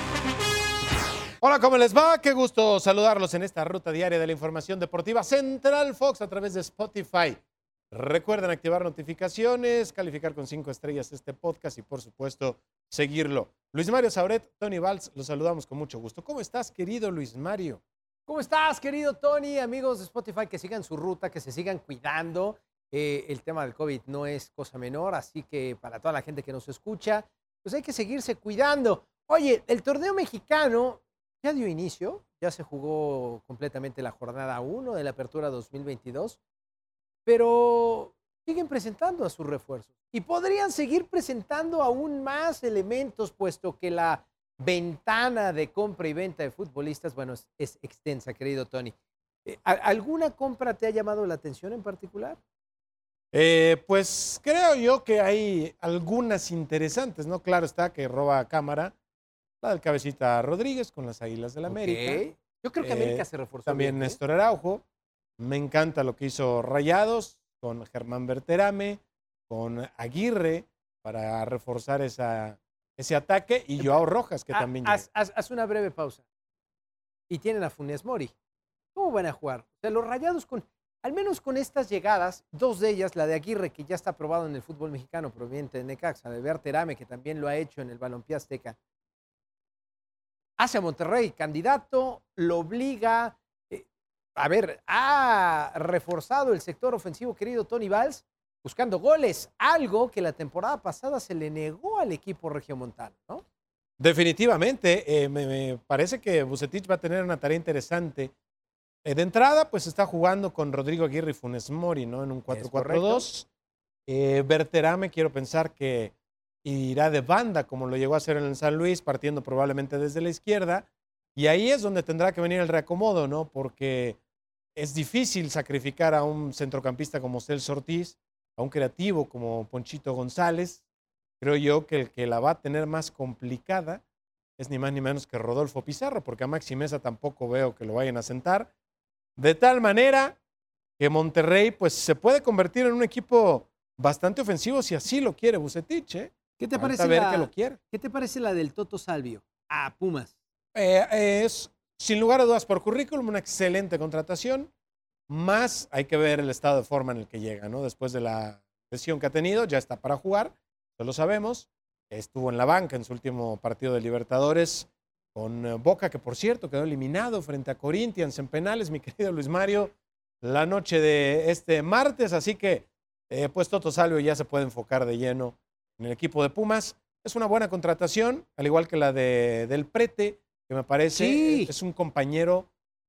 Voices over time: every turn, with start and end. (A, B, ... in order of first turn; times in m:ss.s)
0:01.4-0:07.4 A
0:07.9-0:17.8 A
0:18.3-0:36.4 B
0:37.2-0:52.4 B
0:53.3-0:58.9 A
0:59.6-1:02.2 A
1:01.7-1:04.2 B
1:02.8-1:04.8 A
1:05.4-1:15.0 A
1:13.8-1:16.2 B
1:17.3-1:18.3 B
1:18.9-1:28.8 B
1:30.6-1:43.4 B
1:44.0-1:48.3 A
1:49.0-1:53.5 A
1:52.5-1:53.3 B
1:54.1-2:04.2 A
2:04.8-2:10.8 A
2:11.4-2:14.0 A
2:14.6-2:18.7 A
2:19.4-2:20.4 A
2:21.0-2:27.8 A
2:26.6-2:30.3 B
2:30.7-2:34.7 A
2:35.3-3:02.7 A
3:01.1-3:01.7 B